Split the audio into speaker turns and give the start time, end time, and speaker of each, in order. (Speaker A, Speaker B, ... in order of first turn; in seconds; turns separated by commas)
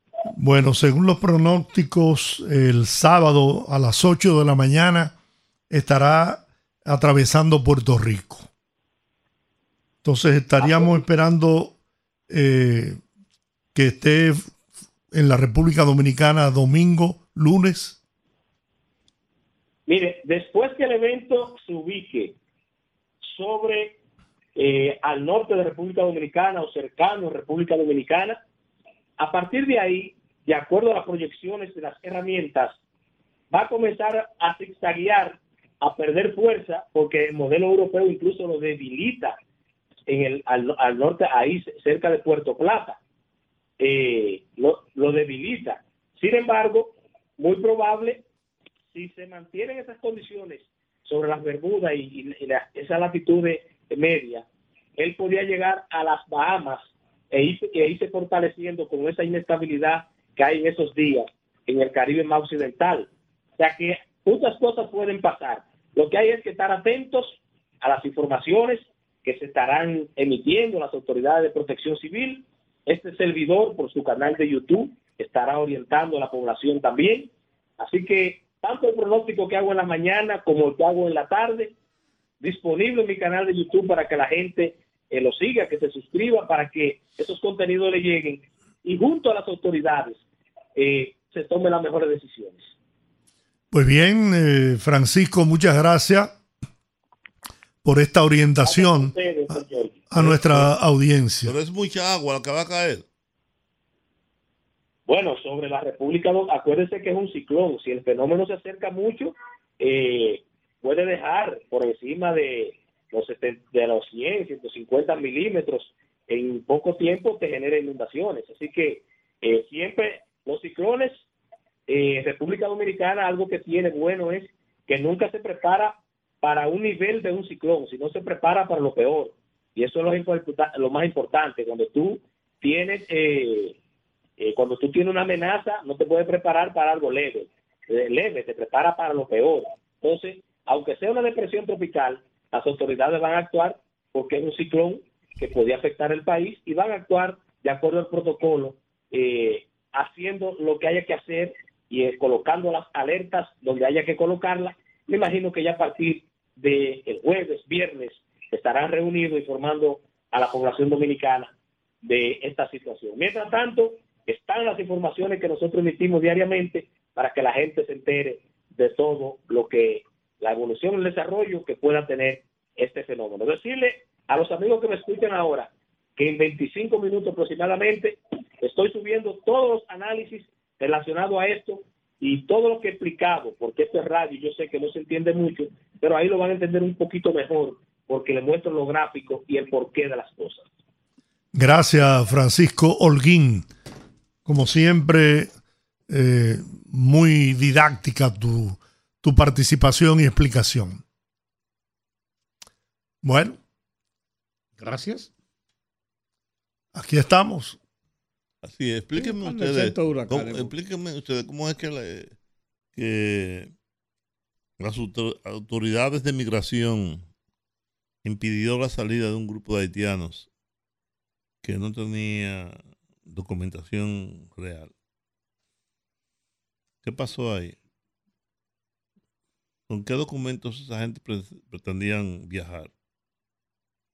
Speaker A: 0.3-5.1, Speaker A: 5.7-8.5, Speaker A: 10.0-11.8, Speaker B: 10.6-11.0, Speaker A: 12.3-13.0, Speaker A: 13.7-14.5, Speaker A: 15.1-18.0, Speaker B: 19.9-22.3, Speaker B: 23.2-23.9, Speaker B: 24.6-28.4, Speaker B: 29.2-32.8, Speaker B: 33.5-39.4, Speaker B: 40.1-43.0, Speaker B: 43.8-48.2, Speaker B: 48.9-54.4, Speaker B: 55.0-81.7, Speaker B: 82.4-90.2, Speaker B: 90.8-92.7, Speaker A: 93.7-96.3, Speaker A: 97.8-101.5, Speaker B: 98.6-100.0, Speaker C: 100.2-100.7, Speaker C: 101.4-103.0, Speaker B: 105.1-121.2, Speaker B: 121.9-133.8, Speaker B: 134.4-161.5, Speaker B: 162.0-190.7, Speaker A: 191.5-193.7, Speaker A: 194.4-195.5, Speaker A: 196.1-201.0, Speaker A: 203.2-203.6, Speaker D: 204.8-205.3, Speaker A: 206.9-207.8, Speaker C: 208.6-212.3, Speaker D: 209.2-210.7, Speaker C: 212.9-213.7, Speaker C: 214.8-217.2, Speaker C: 218.2-220.5, Speaker C: 221.6-224.9, Speaker C: 227.0-227.8, Speaker C: 229.9-232.9